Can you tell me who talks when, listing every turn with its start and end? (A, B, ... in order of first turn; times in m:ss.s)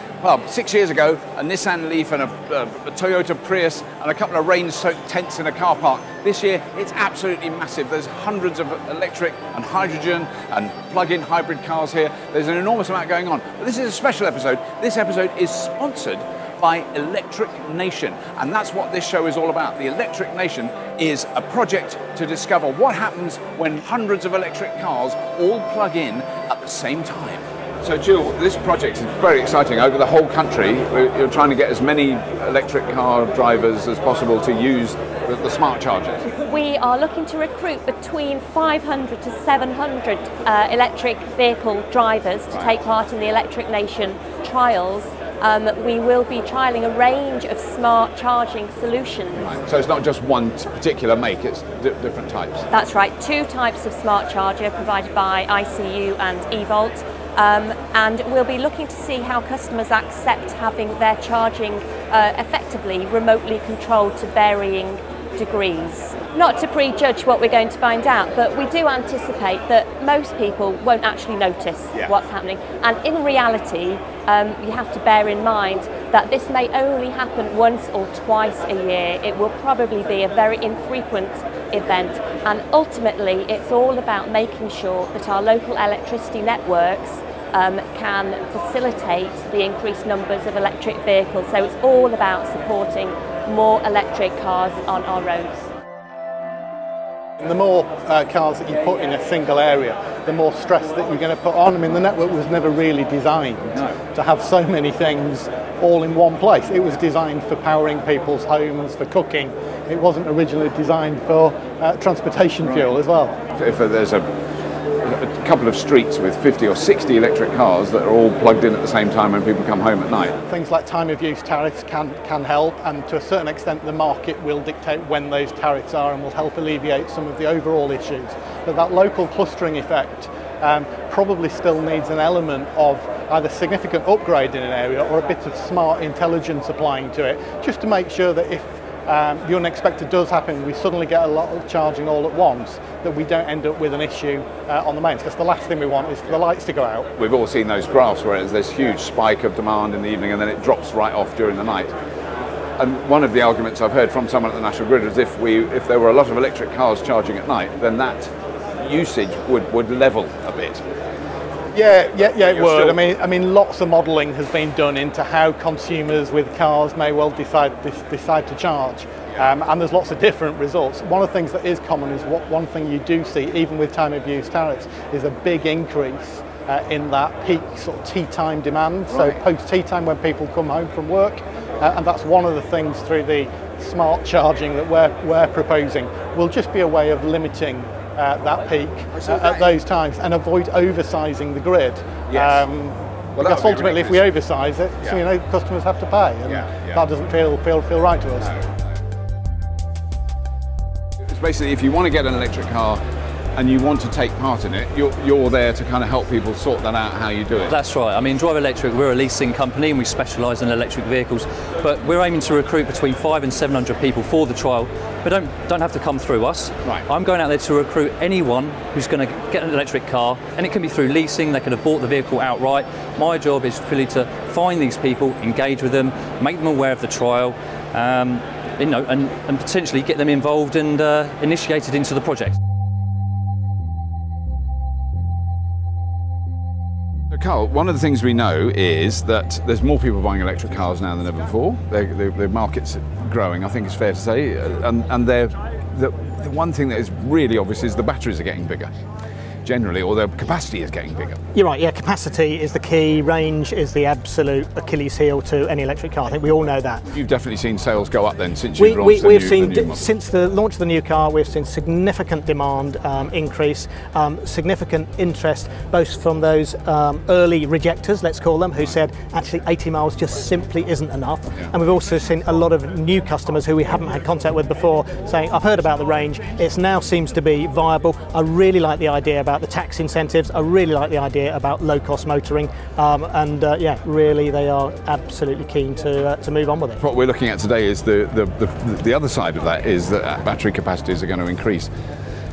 0:00.2-0:36.2 A
0:36.5-0:49.5 B
0:49.4-0:52.7 A
0:52.7-1:35.6 B
1:37.4-1:53.4 C
1:53.6-1:54.2 A
1:55.0-2:00.4 A
2:00.5-2:27.1 C
2:27.2-2:31.9 A
2:32.8-2:40.8 A
2:41.7-3:18.5 C
2:42.2-2:43.0 A
3:09.2-3:09.7 A
3:12.3-3:12.6 A
3:13.4-3:14.3 A
3:16.5-3:17.0 A
3:21.3-3:23.0 A
3:23.6-3:27.7 A
3:27.7-3:52.5 D
3:57.3-4:08.9 A
4:09.6-4:11.4 A
4:11.5-4:17.0 E
4:17.1-4:20.0 A
4:18.8-4:47.0 E
4:47.0-4:51.9 A